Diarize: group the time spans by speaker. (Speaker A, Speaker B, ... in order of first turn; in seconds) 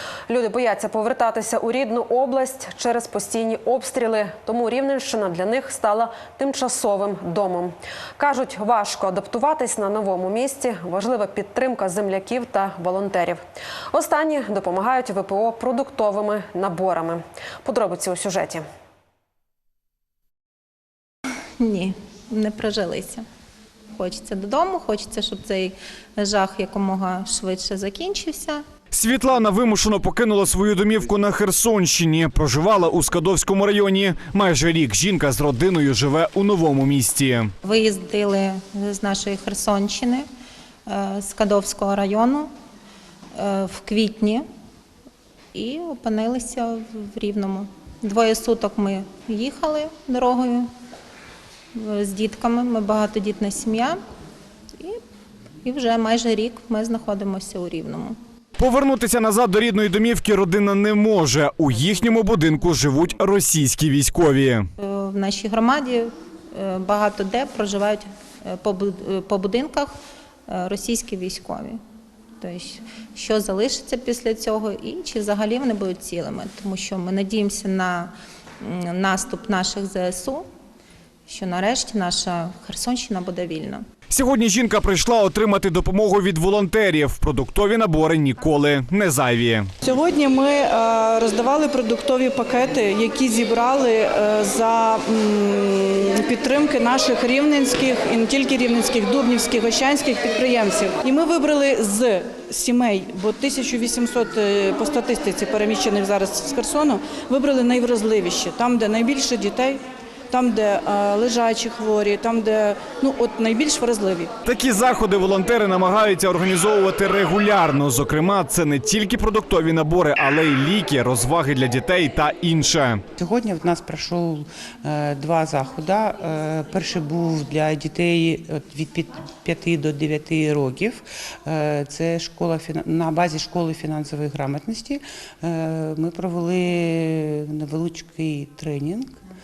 Speaker A: 0.3-18.6
Speaker B: 21.6-23.2, 23.9-28.6, 37.6-40.2, 40.9-42.5, 43.4-44.4, 45.5-50.7, 51.7-54.0, 55.6-58.2, 64.8-70.0, 70.5-71.8, 72.4-80.5, 81.3-83.8
Speaker C: 28.9-37.5, 58.6-64.7, 84.1-89.7, 114.5-123.0
Speaker D: 89.8-109.8, 110.3-114.3
Speaker E: 123.2-139.1